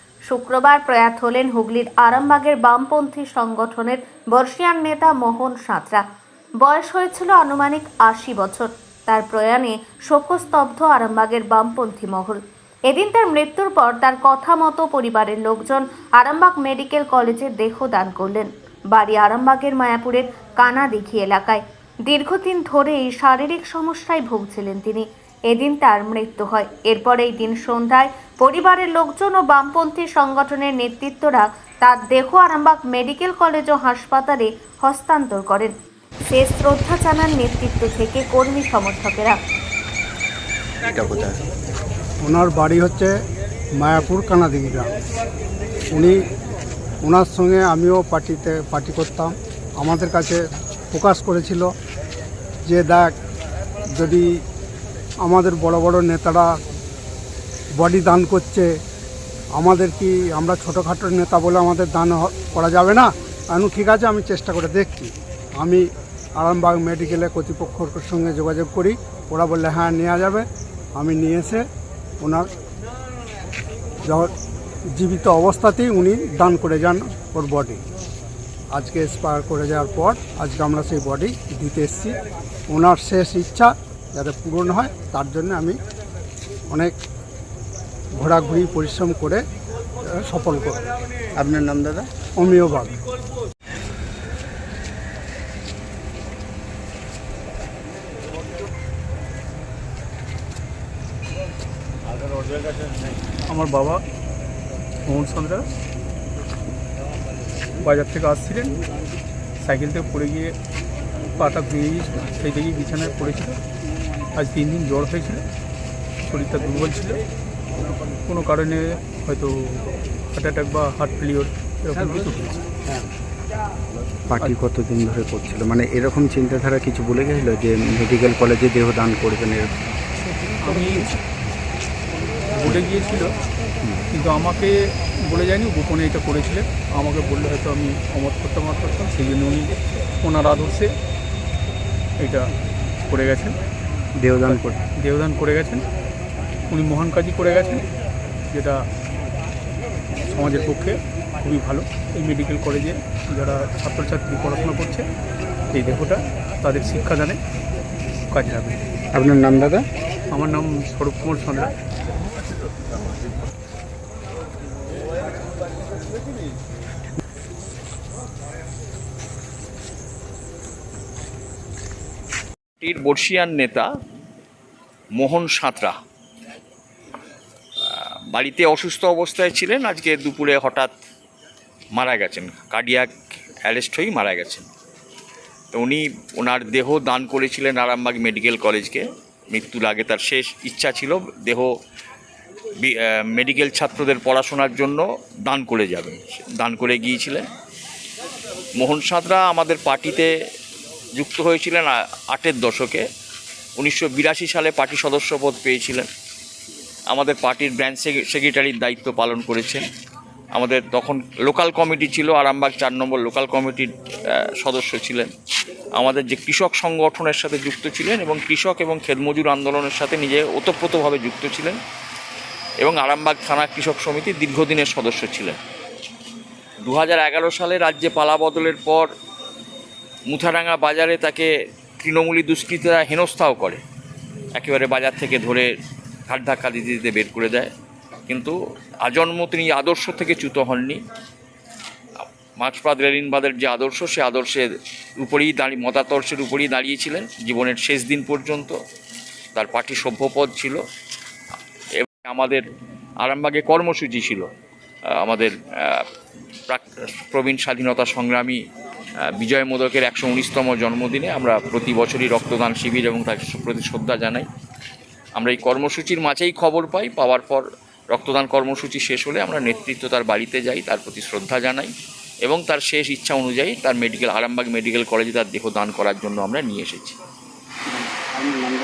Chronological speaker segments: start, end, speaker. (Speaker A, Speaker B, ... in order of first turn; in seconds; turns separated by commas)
Speaker A: 0.3-6.0, Speaker A: 6.6-35.7, Speaker A: 36.3-39.4, Speaker B: 40.9-41.4, Speaker C: 42.2-43.1, Speaker C: 43.8-44.9, Speaker C: 45.9-46.2, Speaker C: 47.0-50.4, Speaker C: 50.9-51.7, Speaker C: 52.6-53.1, Speaker C: 53.9-54.4, Speaker C: 55.2-56.6, Speaker C: 57.8-58.7, Speaker C: 59.5-71.7, Speaker C: 72.2-72.5, Speaker C: 74.0-74.3, Speaker C: 74.9-77.8, Speaker C: 78.7-82.2, Speaker C: 82.7-85.8, Speaker C: 88.2-89.4, Speaker C: 90.1-90.8, Speaker B: 91.4-92.1, Speaker C: 92.4-93.0, Speaker D: 103.5-104.0, Speaker D: 105.1-105.7, Speaker D: 107.8-108.8, Speaker D: 109.6-110.5, Speaker D: 111.4-113.6, Speaker D: 114.4-115.4, Speaker D: 116.3-117.2, Speaker D: 118.3-122.6, Speaker B: 124.3-129.8, Speaker D: 130.6-131.1, Speaker D: 132.6-133.3, Speaker D: 134.1-140.9, Speaker D: 142.2-142.5, Speaker D: 143.1-143.6, Speaker B: 144.2-144.8, Speaker D: 144.4-145.8, Speaker D: 146.7-147.9, Speaker D: 148.5-148.8, Speaker D: 150.2-155.1, Speaker D: 155.7-157.4, Speaker D: 158.3-158.8, Speaker B: 159.1-159.8, Speaker D: 160.3-161.7, Speaker E: 172.8-173.9, Speaker E: 175.2-176.0, Speaker E: 177.9-180.9, Speaker E: 182.0-183.1, Speaker E: 183.7-184.7, Speaker E: 185.7-191.7, Speaker E: 192.8-197.4, Speaker E: 198.8-200.3, Speaker E: 201.2-203.1, Speaker E: 203.8-206.1, Speaker E: 207.1-209.8, Speaker E: 210.6-213.9, Speaker E: 214.6-215.3, Speaker E: 216.0-221.8, Speaker E: 222.8-225.6, Speaker E: 226.8-229.1, Speaker E: 230.3-233.8, Speaker E: 234.6-235.7, Speaker E: 236.3-237.7, Speaker E: 238.3-241.0, Speaker E: 242.6-244.7, Speaker E: 245.2-248.8, Speaker E: 249.6-250.8, Speaker E: 252.0-252.7, Speaker E: 253.2-254.5, Speaker E: 255.2-256.1, Speaker E: 256.7-258.6, Speaker E: 259.3-264.5, Speaker E: 265.4-271.9, Speaker E: 272.5-277.2